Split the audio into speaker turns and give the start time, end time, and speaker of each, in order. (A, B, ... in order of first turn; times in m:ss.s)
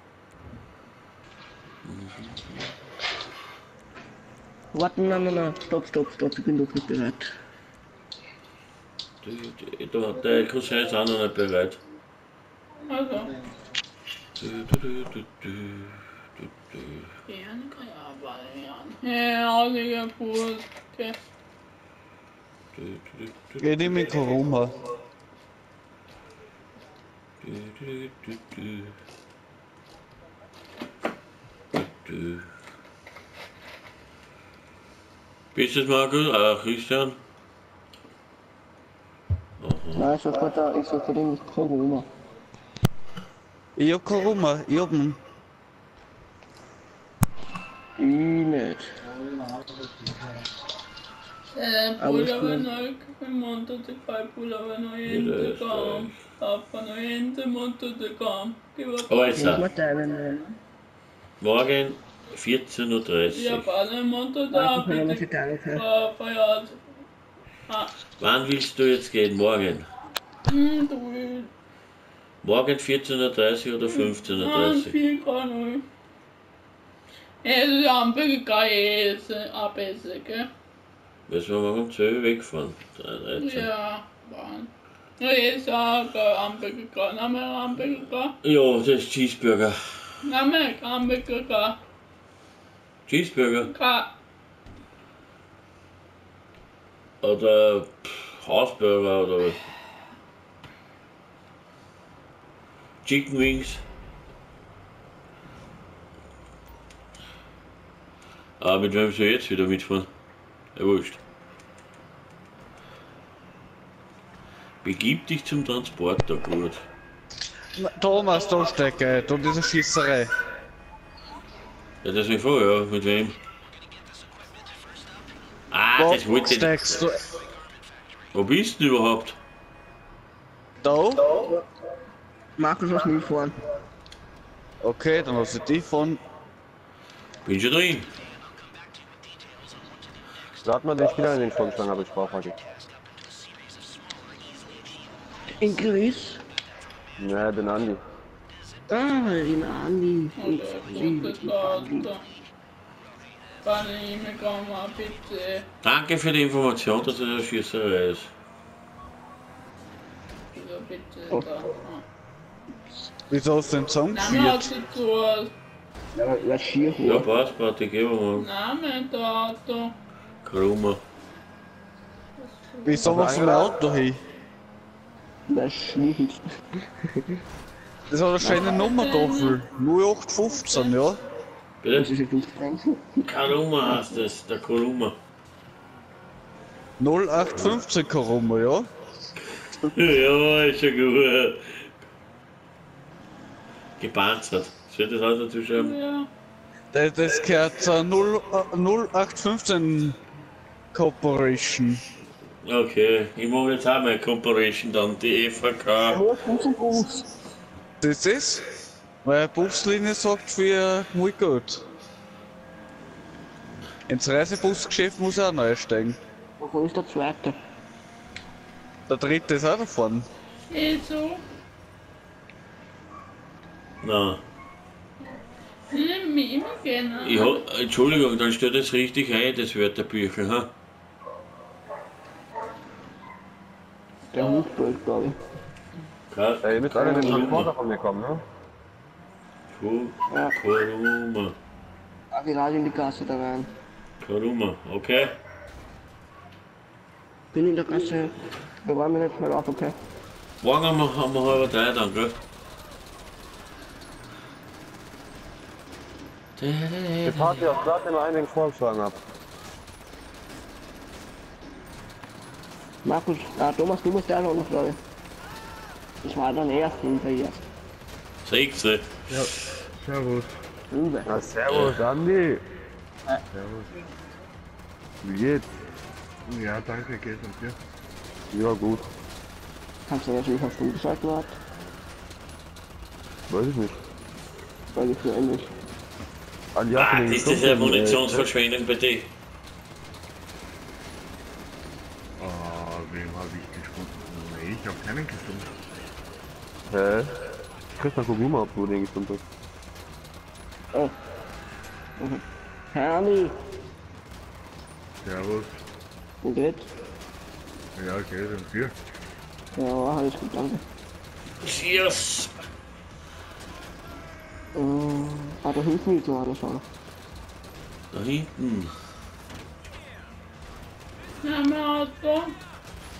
0:01.8-0:02.7 A
0:04.7-0:07.3 B
0:09.2-0:11.8 A
0:12.9-0:13.3 C
0:14.4-0:17.1 A
0:17.3-0:21.1 C
0:22.7-0:23.7 A
0:23.6-0:24.8 D
0:27.4-0:28.9 A
0:32.0-0:32.5 A
0:35.5-0:37.2 A
0:39.6-0:40.1 A
0:40.0-0:42.1 B
0:43.8-0:45.2 D
0:48.0-0:48.9 B
0:51.5-0:59.5 C
0:52.0-0:52.6 B
0:55.0-0:56.2 A
0:59.1-0:59.7 A
0:59.4-1:00.5 B
1:01.4-1:03.7 A
1:03.3-1:06.8 C
1:04.5-1:05.8 B
1:07.7-1:07.9 C
1:08.2-1:09.9 A
1:10.5-1:11.5 C
1:12.4-1:14.9 A
1:13.9-1:15.8 C
1:17.4-1:20.5 C
1:21.3-1:23.7 A
1:23.4-1:28.4 C
1:28.4-1:29.8 A
1:30.2-1:31.8 C
1:33.1-1:33.7 A
1:33.6-1:34.1 C
1:37.2-1:39.6 A
1:43.0-1:43.8 A
1:48.6-1:50.1 A
1:50.8-1:51.2 A
1:54.8-1:56.8 A
1:57.7-2:00.3 D
2:02.0-2:03.4 A
2:05.7-2:07.0 A
2:06.0-2:07.2 D
2:08.3-2:09.4 A
2:10.8-2:11.2 D
2:12.6-2:13.6 B
2:14.8-2:16.2 D
2:17.4-2:18.1 A
2:20.6-2:22.6 E
2:25.6-2:26.4 B
2:27.2-2:28.0 E
2:28.9-2:32.0 B
2:30.4-2:32.2 C
2:33.6-2:35.6 C
2:35.8-2:38.3 A
2:40.5-2:42.0 C
2:43.3-2:44.7 D
2:44.1-2:45.5 C
2:46.1-2:47.2 B
2:47.0-2:48.5 A
2:48.4-2:49.9 C
2:50.4-2:51.0 A
2:52.4-2:53.3 C
2:52.8-2:54.2 D
2:53.0-2:53.7 B
2:53.1-2:53.4 E
2:55.5-2:56.4 B
2:58.1-3:01.2 D
2:58.4-2:59.6 C
3:00.6-3:00.9 C
3:01.8-3:02.1 A
3:01.9-3:03.2 B
3:03.2-3:05.2 A
3:07.0-3:08.9 D
3:09.8-3:11.9 A
3:14.0-3:16.0 A
3:15.7-3:16.3 C
3:16.9-3:20.2 D
3:20.9-3:22.0 D
3:22.6-3:26.2 A
3:26.1-3:27.3 B
3:28.0-3:28.6 D
3:29.2-3:31.8 D
3:34.1-3:36.2 D
3:36.6-3:37.6 B
3:39.1-3:40.3 D
3:40.7-3:41.4 C
3:44.0-3:44.4 A
3:45.9-3:47.6 C
3:47.2-3:50.7 A
3:54.3-3:55.4 B
3:56.3-3:57.7 A
3:56.6-3:58.4 E
3:56.9-3:57.6 B
3:59.7-4:01.6 A
4:00.3-4:00.6 B
4:02.3-4:03.7 B
4:04.2-4:05.4 A
4:07.5-4:08.3 B
4:08.8-4:09.9 B
4:10.6-4:12.4 A
4:16.6-4:17.7 A
4:17.2-4:19.2 E
4:23.0-4:25.0 B
4:26.2-4:27.6 B
4:28.4-4:29.1 A
4:29.3-4:30.5 F
4:30.9-4:31.3 B
4:31.2-4:32.6 E
4:31.7-4:32.0 A
4:33.5-4:33.9 F
4:35.2-4:35.6 E
4:36.5-4:37.8 F
4:38.5-4:39.0 E
4:40.1-4:41.5 B
4:43.5-4:44.0 E
4:44.9-4:45.7 B
4:46.7-4:48.4 E
4:46.9-4:49.3 A
4:52.4-4:55.7 F
4:56.9-4:57.3 E
4:58.0-4:59.4 E
5:02.2-5:03.5 B
5:05.2-5:05.7 F
5:06.4-5:06.9 B
5:08.0-5:08.9 F
5:09.8-5:10.8 B
5:11.6-5:12.5 A
5:14.7-5:16.8 B
5:18.1-5:18.9 A
5:21.4-5:22.5 C